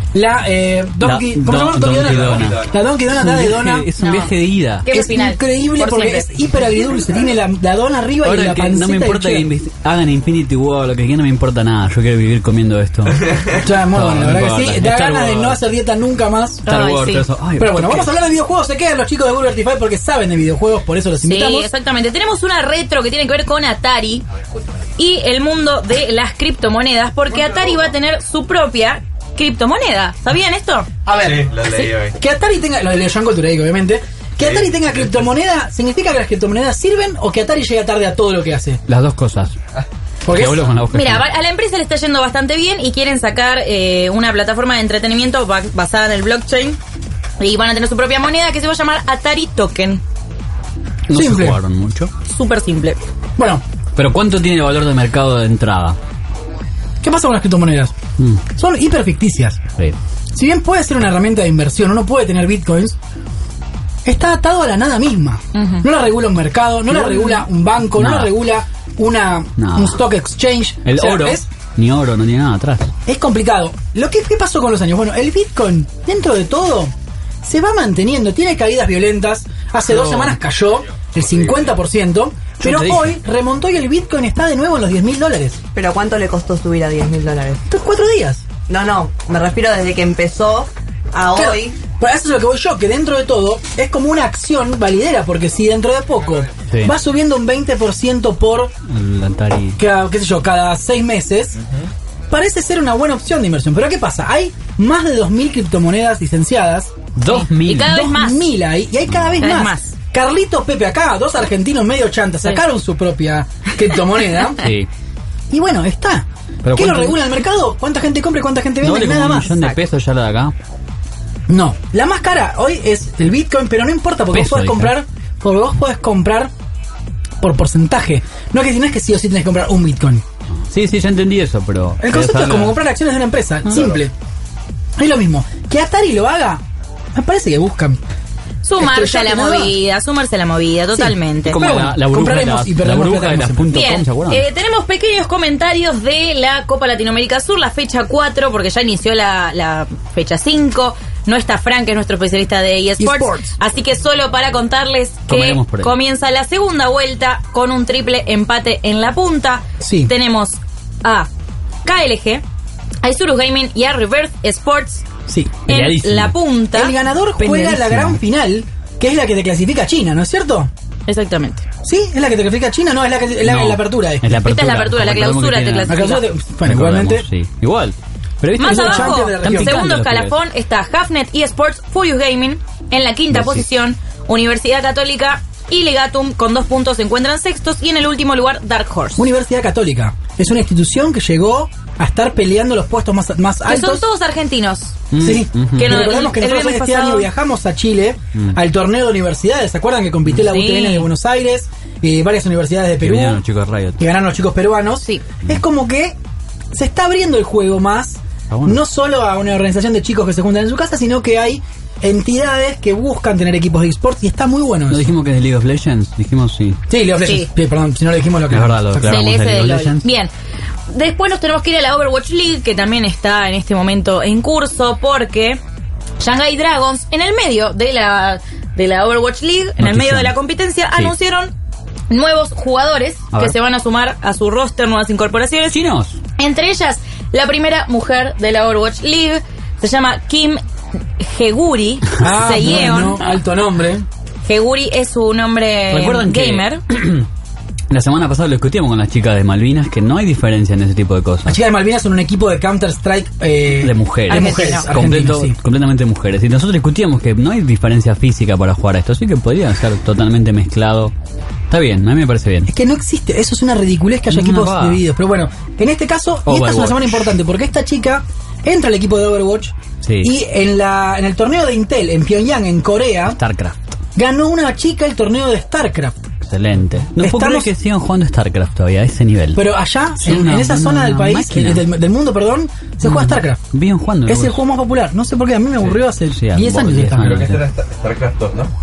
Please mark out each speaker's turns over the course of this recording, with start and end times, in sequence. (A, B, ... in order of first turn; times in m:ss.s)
0:00.1-0:03.9 A
0:01.0-0:04.9 B
0:02.2-0:02.7 C
0:04.0-0:04.3 D
0:04.8-0:06.4 D
0:04.9-0:09.5 A
0:08.2-0:15.6 B
0:13.6-0:16.7 A
0:16.6-0:17.2 D
0:16.6-0:18.2 B
0:17.6-0:21.7 A
0:21.2-0:24.2 D
0:25.0-0:30.9 D
0:31.0-0:38.8 A
0:31.1-0:32.2 C
0:34.4-0:35.3 C
0:38.9-0:39.6 B
0:40.2-0:40.7 A
0:40.3-0:41.2 B
0:40.9-0:46.8 D
0:47.4-0:50.0 D
0:51.1-0:52.1 B
0:51.1-0:51.6 A
0:52.3-0:53.0 D
0:53.4-0:53.6 A
0:54.0-0:56.0 B
0:57.0-0:57.9 A
0:58.6-0:59.6 A
1:00.3-1:03.0 A
1:04.0-1:11.5 A
1:05.5-1:05.8 D
1:07.0-1:07.4 D
1:08.0-1:08.3 B
1:09.6-1:10.0 B
1:10.8-1:12.9 B
1:13.0-1:25.6 A
1:20.0-1:20.3 B
1:22.6-1:23.2 B
1:25.7-1:27.6 E
1:27.7-1:28.4 A
1:28.7-1:31.8 E
1:31.3-1:38.7 A
1:36.7-1:36.9 B
1:38.9-1:39.8 B
1:39.8-1:41.6 A
1:41.6-1:41.9 C
1:42.3-1:46.9 A
1:47.2-1:48.0 B
1:47.2-1:48.4 D
1:47.8-1:54.7 A
1:49.1-1:49.5 B
1:49.4-1:49.9 D
1:54.6-1:54.9 B
1:55.5-1:59.7 A
1:56.6-1:57.3 B
1:58.8-2:00.5 B
2:01.5-2:06.5 A
2:04.3-2:04.9 B
2:07.4-2:10.2 A
2:10.7-2:12.8 B
2:12.0-2:14.1 A
2:13.7-2:14.0 C
2:15.0-2:16.6 A
2:17.1-2:18.0 A
2:18.6-2:21.6 D
2:18.8-2:19.8 A
2:20.9-2:23.7 A
2:21.4-2:24.4 B
2:23.7-2:41.3 D
2:33.0-2:33.5 A
2:35.3-2:35.9 B
2:39.8-2:40.1 A
2:41.8-2:42.4 D
2:43.0-2:45.0 D
2:45.3-2:45.6 A
2:45.7-2:46.4 B
2:45.7-2:46.9 D
2:46.7-2:50.7 A
2:47.4-2:48.2 B
2:51.1-2:51.6 D
2:51.8-2:54.3 A
2:53.4-2:56.1 B
2:54.4-2:56.2 D
2:55.9-2:57.3 A
2:56.6-3:00.4 B
2:58.5-2:59.8 A
2:58.6-3:09.3 D
3:03.3-3:03.6 B
3:09.2-3:14.0 A
3:13.6-3:15.0 D
3:15.1-3:16.0 B
3:15.2-3:23.4 A
3:15.8-3:17.3 D
3:20.4-3:21.1 D
3:23.0-3:24.0 B
3:24.0-3:26.2 A
3:26.7-3:35.1 A
3:28.5-3:28.8 B
3:34.9-3:36.8 B
3:36.9-3:39.2 A
3:37.2-3:37.5 D
3:38.5-3:40.0 B
3:39.1-3:40.3 D
3:40.9-3:45.6 D
3:46.2-3:51.5 D
3:49.8-3:50.3 B
3:52.1-3:55.8 D
3:55.7-3:56.2 B
3:56.4-4:00.6 D
4:01.2-4:03.2 D
4:02.2-4:04.0 A
4:02.6-4:03.0 B
4:04.4-4:06.8 D
4:05.9-4:07.3 B
4:07.9-4:11.6 B
4:11.4-4:15.6 A
4:13.8-4:21.1 B
4:14.3-4:14.9 D
4:21.7-4:22.7 B
4:22.7-4:33.4 A
4:24.3-4:25.0 B
4:26.4-4:27.3 B
4:30.0-4:30.3 B
4:33.3-4:34.0 B
4:34.2-4:36.2 A
4:36.4-4:39.6 B
4:37.2-4:37.7 A
4:39.5-4:43.6 A
4:40.2-4:41.8 B
4:43.0-4:44.6 B
4:44.2-4:47.4 A
4:46.3-4:47.6 B
4:47.2-4:48.7 C